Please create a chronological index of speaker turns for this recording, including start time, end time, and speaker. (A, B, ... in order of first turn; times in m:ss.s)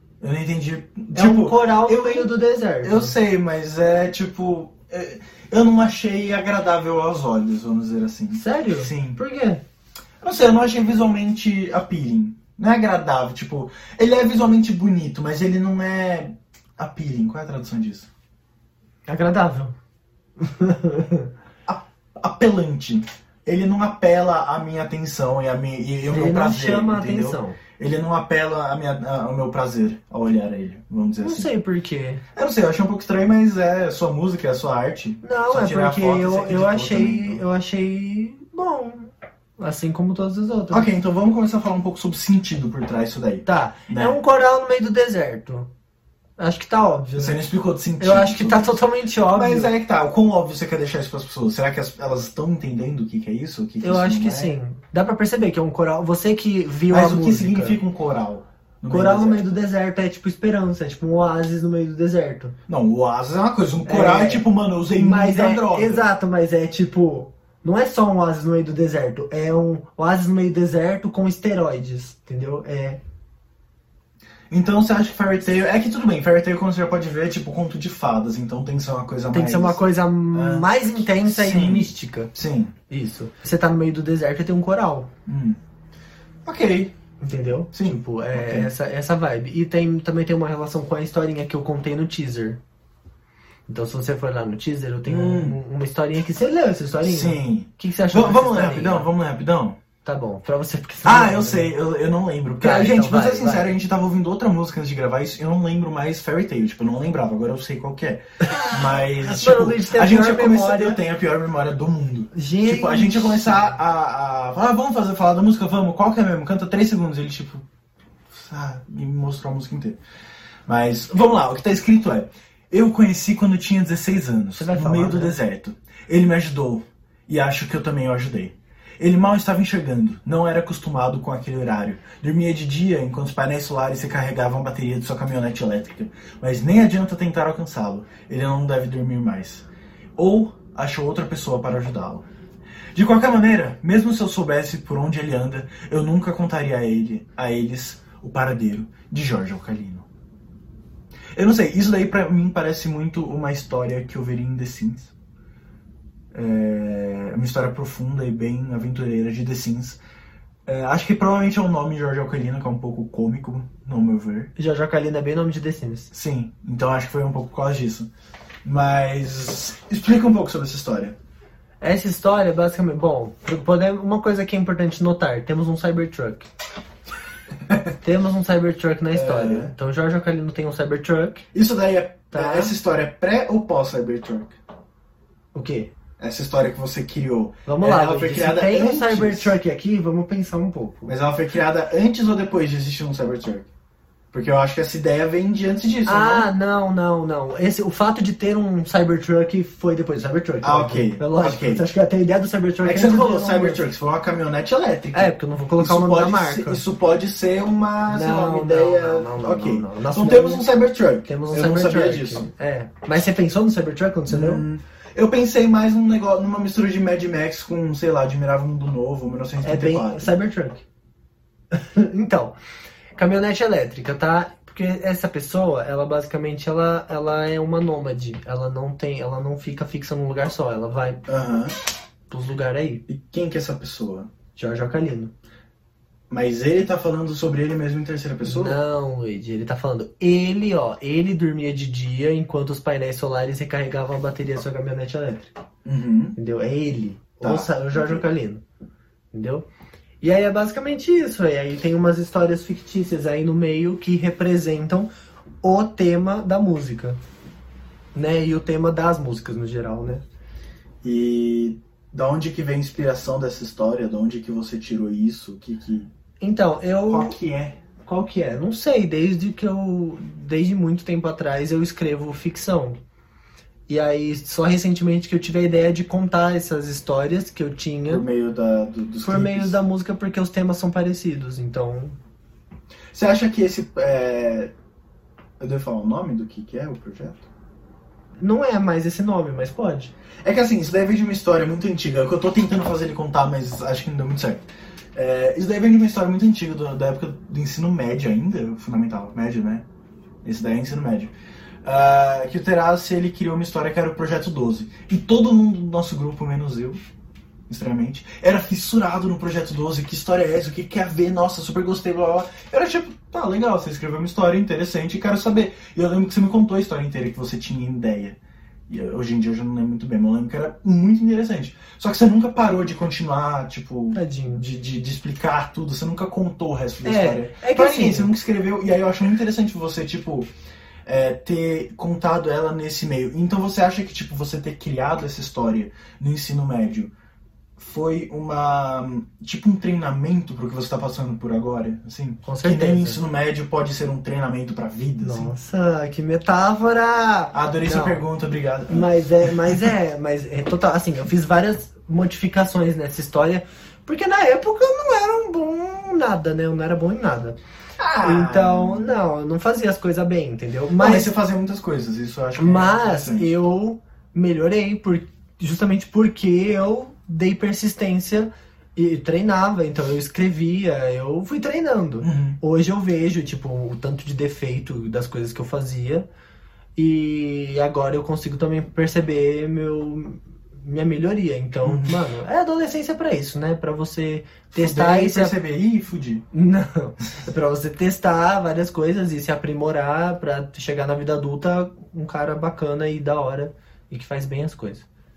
0:00.2-0:09.2 A
0:01.1-0:03.2 B
0:08.3-0:09.6 B
0:10.2-0:18.1 A
0:19.1-0:19.8 B
0:20.4-0:21.3 B
0:21.7-0:31.5 A
0:26.1-0:27.6 B
0:31.2-0:32.2 B
0:32.4-0:37.4 A
0:35.2-0:40.9 B
0:40.7-0:44.2 A
0:43.5-0:45.7 B
0:46.4-0:47.4 B
0:47.2-0:54.5 A
0:48.0-0:49.7 B
0:53.8-0:57.8 B
0:56.9-0:59.4 A
0:58.9-1:02.6 B
1:02.7-1:06.1 A
1:03.9-1:13.0 B
1:14.5-1:22.8 A
1:19.3-1:22.3 B
1:22.9-1:25.1 B
1:25.3-1:25.6 A
1:26.5-1:26.9 A
1:27.2-1:32.6 B
1:27.7-1:28.7 A
1:33.7-1:39.1 B
1:35.0-1:35.6 A
1:37.0-1:39.8 A
1:40.0-1:41.7 B
1:41.0-1:57.6 A
1:42.6-1:43.7 B
1:48.5-1:51.0 B
1:52.3-1:53.7 B
1:58.3-2:00.0 A
2:00.7-2:19.7 A
2:04.6-2:05.4 B
2:20.2-2:22.2 A
2:23.0-2:30.1 A
2:31.3-2:35.1 A
2:36.3-2:40.0 A
2:40.7-2:44.5 A
2:44.6-2:46.1 B
2:46.1-2:48.1 A
2:48.6-2:51.2 A
2:51.8-2:56.5 B
2:57.7-2:57.9 A
2:58.0-3:01.5 B
2:59.1-2:59.7 A
3:01.5-3:04.6 A
3:02.3-3:02.7 B
3:05.5-3:05.9 B
3:06.2-3:09.6 A
3:07.7-3:11.1 B
3:11.1-3:13.7 A
3:14.3-3:16.5 A
3:16.1-3:23.9 B
3:20.6-3:21.9 A
3:22.8-3:32.5 A
3:25.1-3:26.8 B
3:28.1-3:30.6 B
3:31.3-3:34.6 B
3:34.3-3:40.3 A
3:39.6-3:40.8 B
3:41.7-3:42.6 B
3:43.2-3:51.2 B
3:51.3-3:51.8 A
3:52.3-3:53.0 B
3:53.1-3:54.3 A
3:54.6-3:55.3 B
3:56.3-3:58.8 A
3:58.4-4:05.5 B
4:05.8-4:06.4 A
4:06.4-4:08.6 B
4:07.4-4:08.2 A
4:09.3-4:09.7 B
4:10.2-4:15.1 B
4:15.6-4:17.2 B
4:18.1-4:20.2 B
4:21.0-4:26.1 A
4:26.4-4:27.4 B
4:27.1-4:27.8 A
4:28.0-4:33.0 B
4:33.9-4:38.2 B
4:38.1-4:39.8 A
4:39.2-4:42.2 B
4:43.1-4:44.7 A
4:45.6-4:47.5 A
4:48.4-4:50.1 B
4:50.4-4:59.8 A
5:00.4-5:01.3 A
5:01.8-5:07.0 A
5:07.7-5:18.4 A
5:18.9-5:30.5 A
5:24.1-5:24.6 B
5:27.0-5:28.3 B
5:31.1-5:37.1 A
5:37.8-5:45.5 A
5:42.4-5:43.2 B
5:45.2-5:48.2 B
5:47.5-5:49.9 A
5:48.9-5:57.6 B
5:58.0-5:59.2 A
5:58.2-6:01.3 B
6:01.0-6:03.5 A
6:02.6-6:16.3 B
6:12.2-6:12.6 A
6:17.0-6:25.6 B
6:21.8-6:22.2 A
6:24.7-6:26.4 A
6:26.5-6:35.0 B